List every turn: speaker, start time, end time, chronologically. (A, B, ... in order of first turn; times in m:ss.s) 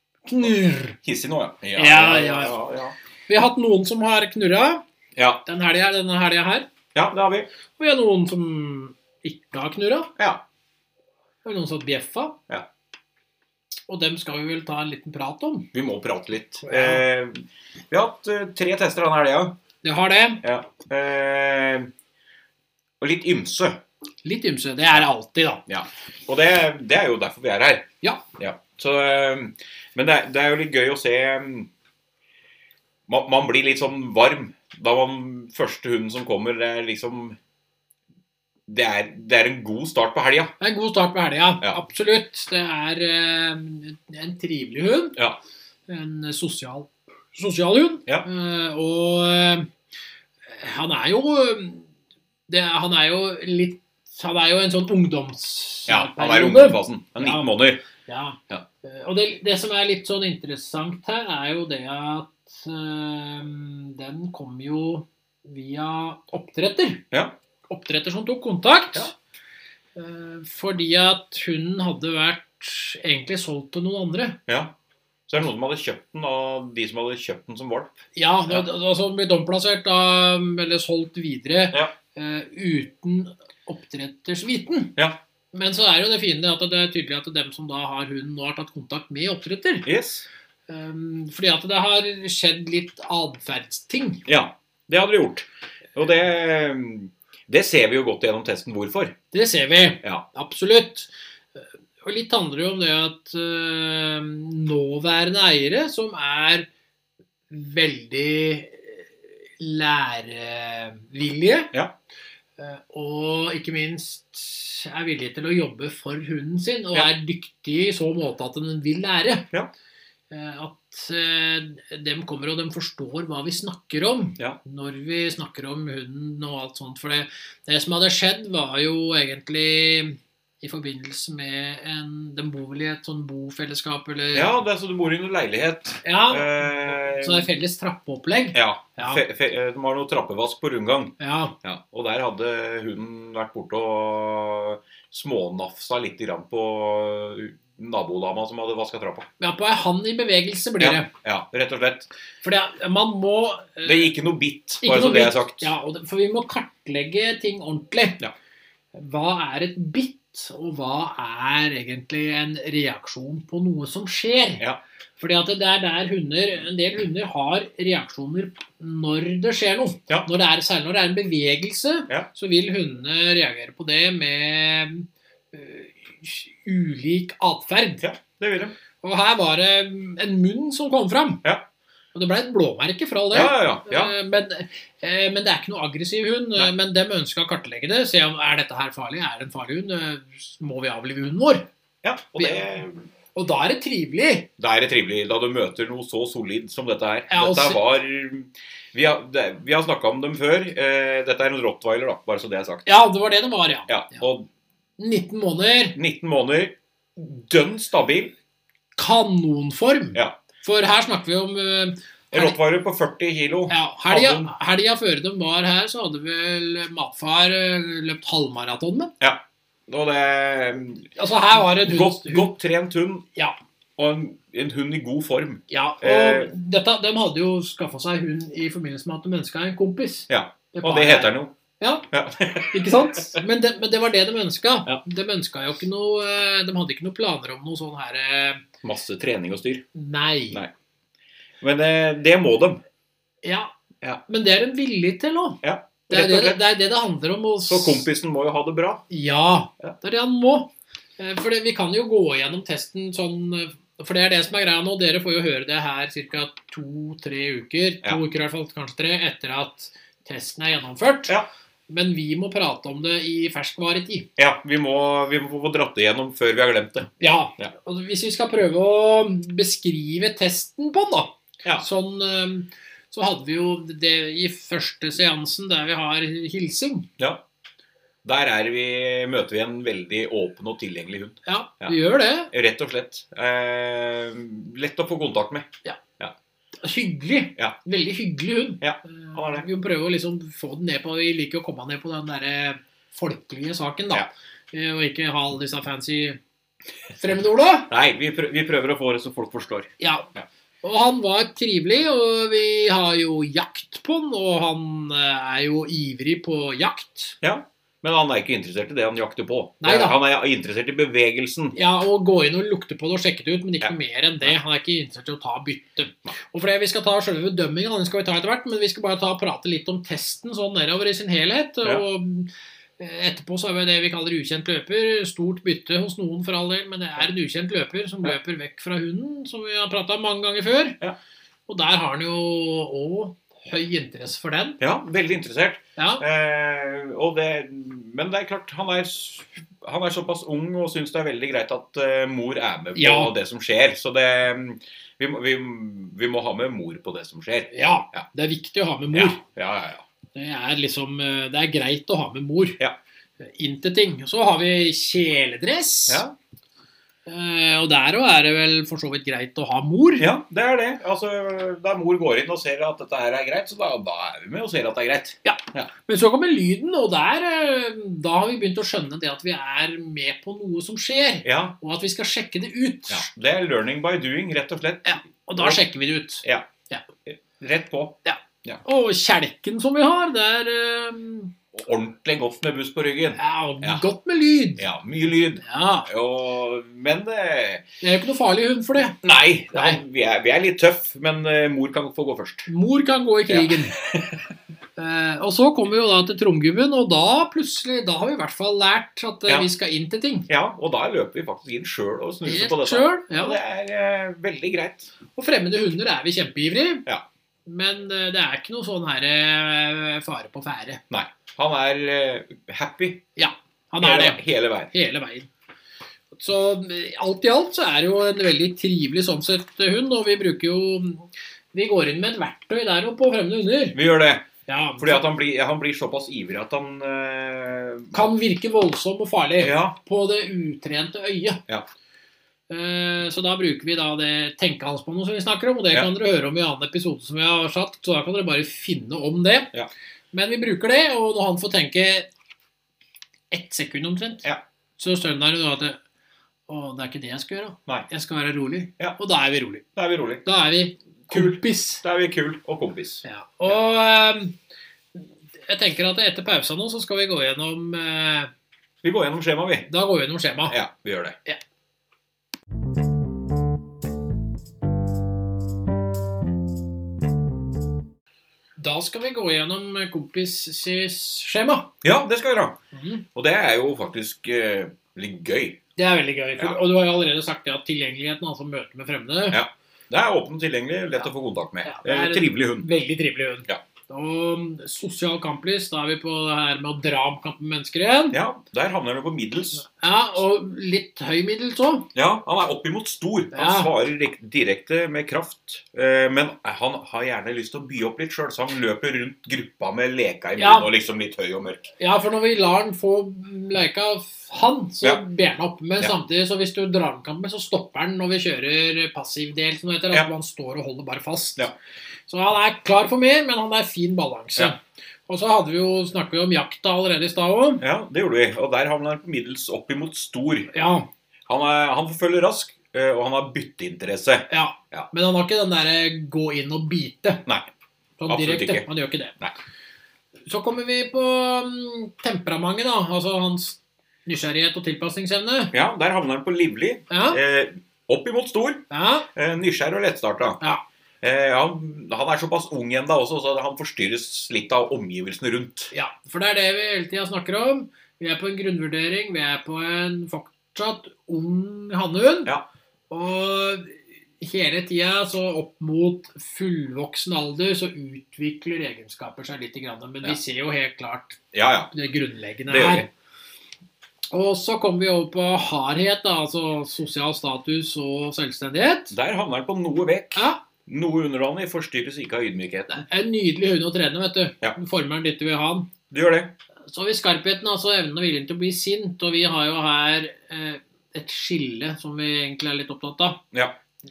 0:00.3-0:01.0 A
0:01.0-0:03.0 B
0:01.8-0:02.6 A
0:03.3-0:04.8 A
0:05.2-0:05.4 B
0:05.4-0:06.7 A
0:06.9-0:07.5 B
0:07.8-0:10.1 A
0:11.4-0:12.4 A
0:13.9-0:15.7 A
0:15.7-0:19.6 B
0:16.6-0:17.0 A
0:19.8-0:20.4 A
0:20.4-0:21.9 B
0:23.0-0:23.8 B
0:24.2-0:25.6 A
0:25.7-0:31.7 B
0:33.1-0:37.4 B
0:38.7-0:40.5 B
0:40.6-0:45.2 A
0:45.9-0:49.7 A
0:50.5-0:51.9 A
0:52.5-0:57.4 A
0:55.9-0:57.8 B
0:58.1-1:07.0 A
1:07.7-1:09.1 A
1:10.0-1:14.4 A
1:14.5-1:14.7 B
1:15.3-1:18.7 B
1:18.2-1:25.0 A
1:25.5-1:29.9 A
1:29.8-1:30.3 B
1:30.7-1:34.2 A
1:34.3-1:39.2 B
1:39.3-1:46.7 A
1:47.5-1:51.7 A
1:52.6-1:59.5 A
2:00.3-2:14.6 A
2:14.3-2:17.5 B
2:16.0-2:19.2 A
2:18.5-2:29.3 B
2:21.2-2:21.6 A
2:29.4-2:31.1 A
2:30.8-2:32.1 B
2:32.4-2:34.1 A
2:33.8-2:35.7 B
2:34.8-2:38.2 A
2:38.9-2:44.6 A
2:45.2-2:58.0 A
2:58.0-2:58.8 B
2:59.0-3:01.4 A
3:02.1-3:11.7 A
3:03.3-3:04.1 B
3:12.0-3:13.1 B
3:12.4-3:12.7 A
3:13.3-3:14.5 A
3:14.6-3:22.9 B
3:17.3-3:17.8 A
3:22.9-3:24.2 A
3:23.9-3:24.5 B
3:25.0-3:26.0 A
3:26.0-3:28.3 B
3:29.0-3:32.6 A
3:32.3-3:34.5 B
3:33.7-3:39.1 A
3:39.2-3:43.3 B
3:41.2-3:42.5 A
3:44.0-3:46.5 B
3:45.7-3:52.1 A
3:50.3-3:51.5 B
3:52.1-3:53.4 B
3:52.7-3:58.6 A
3:58.8-3:59.8 B
4:00.0-4:00.6 A
4:01.6-4:02.8 B
4:03.4-4:03.7 A
4:04.3-4:08.1 A
4:05.6-4:06.6 B
4:07.7-4:09.0 B
4:09.1-4:21.4 A
4:21.9-4:24.3 A
4:24.4-4:27.7 B
4:27.2-4:37.1 A
4:38.2-4:42.0 B
4:41.4-4:42.5 A
4:42.5-4:46.3 B
4:46.8-4:56.4 A
4:48.8-4:49.7 B
4:57.2-4:57.9 A
4:57.9-5:00.4 B
5:00.0-5:00.3 A
5:00.8-5:07.4 A
5:07.4-5:11.8 B
5:09.8-5:10.2 A
5:11.8-5:31.0 A
5:13.8-5:14.5 B
5:31.7-5:34.8 A
5:34.8-5:48.3 B
5:36.0-5:36.2 A
5:43.0-5:43.3 A
5:47.7-5:49.4 A
5:49.1-5:50.0 B
5:50.4-5:52.8 A
5:53.4-5:56.2 A
5:56.1-5:56.3 B
5:57.3-6:00.3 A
6:00.2-6:05.9 B
6:05.4-6:13.3 A
6:11.4-6:11.8 B
6:13.1-6:15.8 B
6:15.0-6:17.0 A
6:17.3-6:18.8 B
6:18.2-6:21.5 A
6:21.7-6:24.0 B
6:23.4-6:24.9 A
6:24.8-6:27.8 B
6:25.6-6:26.1 A
6:28.0-6:29.2 A
6:29.1-6:32.7 B
6:29.7-6:30.0 A
6:32.7-6:34.0 A
6:33.5-6:34.4 B
6:35.0-6:40.5 A
6:40.5-6:45.1 B
6:42.4-6:43.6 A
6:45.3-6:47.0 A
6:47.7-6:51.0 A
6:51.1-6:53.2 B
6:53.4-6:54.4 A
6:54.0-6:54.9 B
6:54.9-6:55.5 A
6:56.4-7:04.0 A
7:04.0-7:04.5 B
7:04.7-7:05.3 A
7:05.0-7:08.3 B
7:08.1-7:11.6 A
7:09.6-7:10.0 B
7:12.7-7:19.7 A
7:20.3-7:22.3 A
7:23.5-7:24.5 A
7:25.0-7:26.0 A
7:26.7-7:29.8 A
7:30.0-7:30.4 B
7:30.4-7:32.0 A
7:31.3-7:33.2 B
7:33.2-7:34.6 A
7:35.2-7:38.5 A
7:39.0-7:39.9 B
7:39.9-7:40.8 A
7:40.7-7:41.4 B
7:48.8-7:51.9 A
7:52.0-7:52.8 B
7:52.9-7:53.2 A
7:53.4-7:55.8 B
7:56.0-7:59.6 A
7:59.5-8:02.9 B
8:01.8-8:08.4 A
8:08.3-8:09.9 B
8:09.8-8:12.1 A
8:12.2-8:21.9 B
8:13.5-8:13.9 A
8:20.6-8:20.9 A
8:22.0-8:31.7 A
8:32.3-8:37.8 A
8:37.8-8:40.7 B
8:40.7-8:41.1 A
8:41.5-8:45.1 B
8:44.5-8:47.4 A
8:48.2-8:49.4 A
8:48.3-8:48.9 B
8:50.5-8:55.7 A
8:55.7-9:00.6 B
8:57.1-8:57.4 A
8:58.9-8:59.3 A
9:01.2-9:05.9 B
9:05.9-9:12.5 A
9:13.1-9:21.4 A
9:21.5-9:21.9 B
9:21.9-9:23.1 A
9:22.7-9:23.1 B
9:24.3-9:29.2 A
9:29.1-9:33.0 B
9:30.4-9:30.6 A
9:32.9-9:35.9 A
9:36.1-9:36.5 B
9:36.9-9:43.4 A